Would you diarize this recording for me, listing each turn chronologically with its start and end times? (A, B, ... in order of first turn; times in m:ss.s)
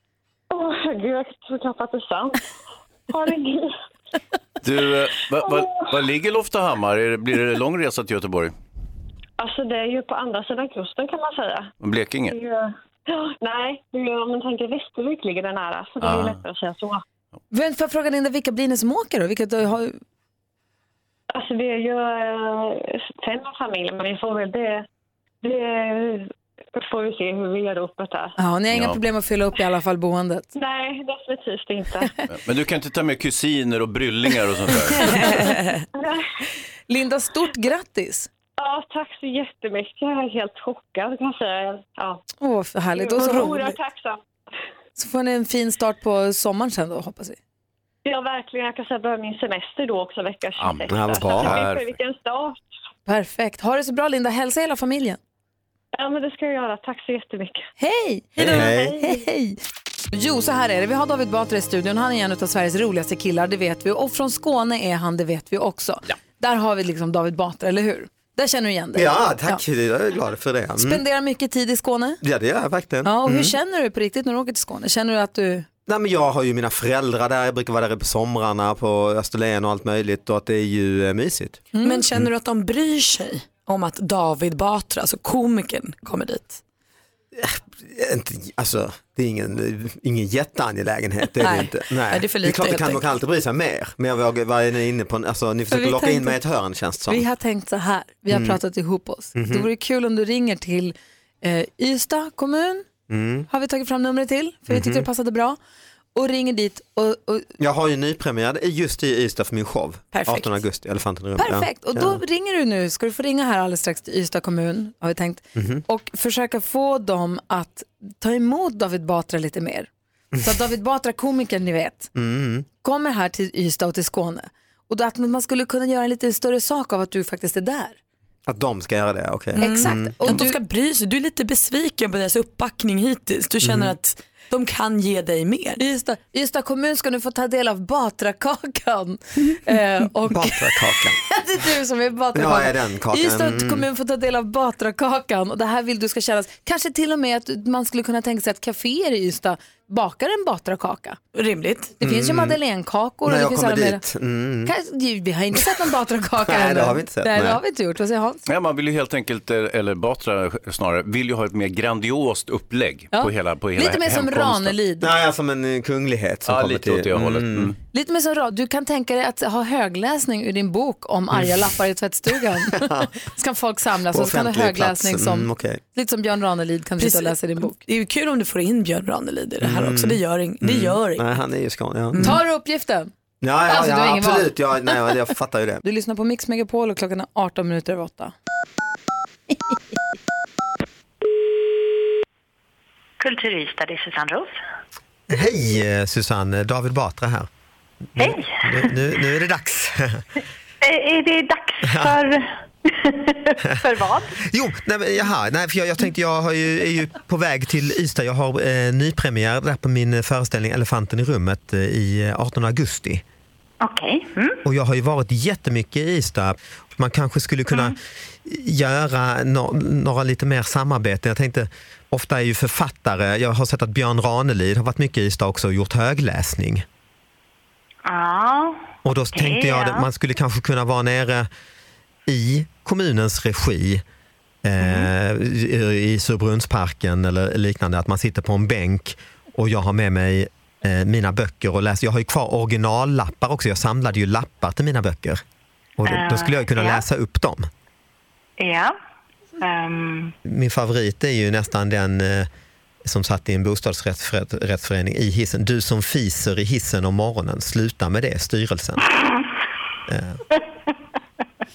0:00.5-0:02.4 A
0:03.1-0:03.8 A
0:04.6-0:08.6 B
0:05.5-0:05.9 A
0:09.4-0:11.7 A
0:11.8-0:12.4 B
0:12.3-0:17.0 A
0:16.0-0:16.4 B
0:17.5-0:20.0 C
0:21.3-0:24.9 A
0:25.4-0:28.4 A
0:28.4-0:30.5 C
0:28.7-0:29.0 B
0:30.6-0:32.1 A
0:32.3-0:35.2 B
0:35.0-0:35.8 C
0:36.0-0:36.2 A
0:36.9-0:38.3 C
0:38.6-0:42.2 A
0:42.4-0:43.8 C
0:42.9-0:44.2 A
0:45.0-0:47.4 C
0:48.0-0:52.7 A
0:50.6-0:51.9 B
0:50.9-0:51.6 D
0:53.1-0:55.2 C
0:56.0-0:57.7 A
0:57.8-0:59.6 C
0:58.4-0:59.0 D
1:00.1-1:09.6 C
1:08.9-1:11.0 D
1:10.8-1:12.2 C
1:12.2-1:13.6 D
1:13.0-1:15.7 C
1:15.9-1:22.3 D
1:21.7-1:22.0 C
1:21.8-1:26.6 E
1:27.4-1:37.3 D
1:31.4-1:33.0 E
1:35.7-1:36.4 C
1:37.1-1:42.9 C
1:38.3-1:38.6 D
1:39.4-1:39.7 D
1:43.1-1:43.5 D
1:43.5-1:45.6 C
1:44.7-1:45.1 D
1:46.2-1:47.5 C
1:47.6-1:52.2 D
1:50.1-1:50.5 E
1:51.4-1:59.9 C
1:55.6-1:55.8 D
2:00.4-2:02.1 C
2:02.2-2:02.7 D
2:02.8-2:08.0 C
2:08.5-2:10.5 D
2:09.6-2:10.6 C
2:09.6-2:15.8 E
2:13.6-2:14.0 D
2:15.8-2:31.2 C
2:20.3-2:21.2 D
2:22.3-2:23.9 D
2:31.4-2:31.9 E
2:32.0-2:34.0 C
2:32.0-2:32.6 D
2:33.2-2:34.8 D
2:34.6-2:38.4 C
2:36.4-2:37.6 D
2:38.5-2:44.8 B
2:43.1-2:45.1 C
2:45.0-2:47.8 D
2:46.5-2:47.8 B
2:47.9-2:57.8 C
2:52.6-2:53.1 D
2:54.1-2:55.8 D
2:57.0-3:01.2 E
2:59.6-3:02.4 D
3:02.1-3:02.4 E
3:02.2-3:03.1 C
3:03.4-3:05.8 D
3:03.7-3:04.5 C
3:05.8-3:08.3 C
3:13.2-3:14.5 F
3:15.3-3:17.5 D
3:18.2-3:18.9 F
3:18.2-3:20.2 D
3:20.8-3:24.3 F
3:21.8-3:22.2 D
3:24.4-3:33.2 D
3:33.8-3:34.6 F
3:34.6-3:46.8 D
3:48.0-3:48.8 F
3:49.0-3:51.5 D
3:49.3-3:50.1 F
3:52.3-3:54.0 D
3:54.6-4:05.4 D
3:54.8-3:55.1 F
4:06.0-4:07.7 D
4:06.1-4:07.0 F
4:08.6-4:09.0 F
4:09.6-4:10.3 F
4:10.4-4:12.5 D
4:13.0-4:19.0 D
4:19.1-4:19.4 F
4:20.1-4:20.4 D